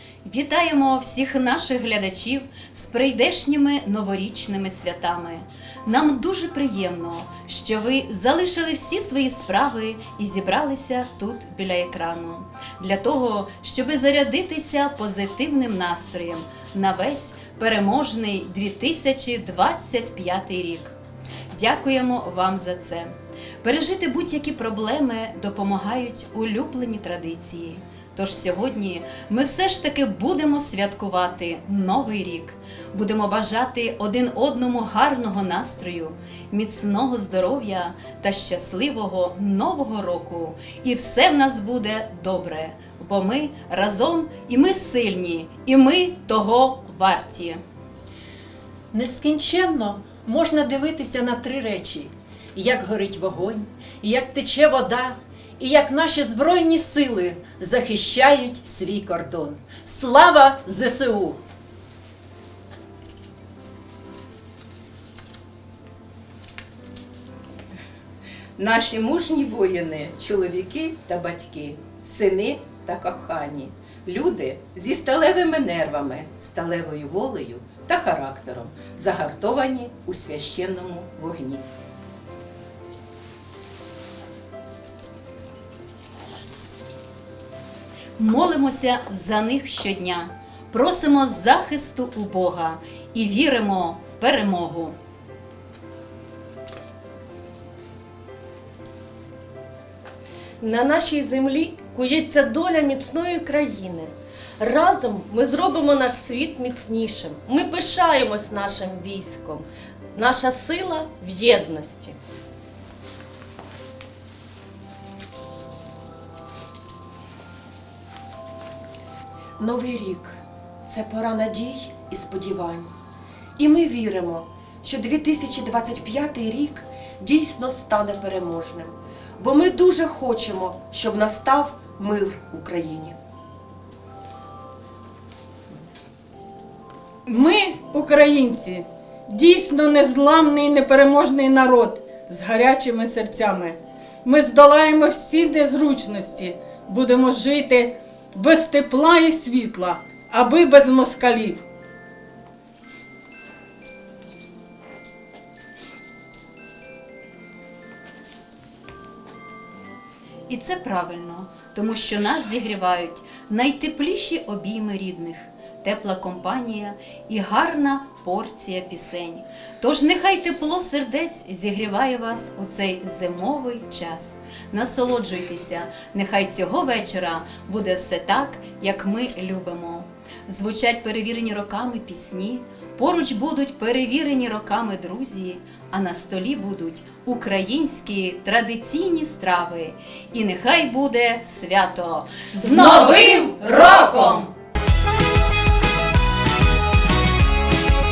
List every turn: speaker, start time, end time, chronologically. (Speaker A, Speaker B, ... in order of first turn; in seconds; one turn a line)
Speaker A: 0.2-20.9
Speaker A: 21.5-47.6
Speaker B: 48.9-61.4
Speaker C: 68.6-81.7
Speaker A: 88.2-95.0
Speaker D: 100.6-112.2
Speaker E: 119.6-122.9
Speaker E: 123.6-133.2
Speaker F: 137.3-151.6
Speaker A: 160.5-194.5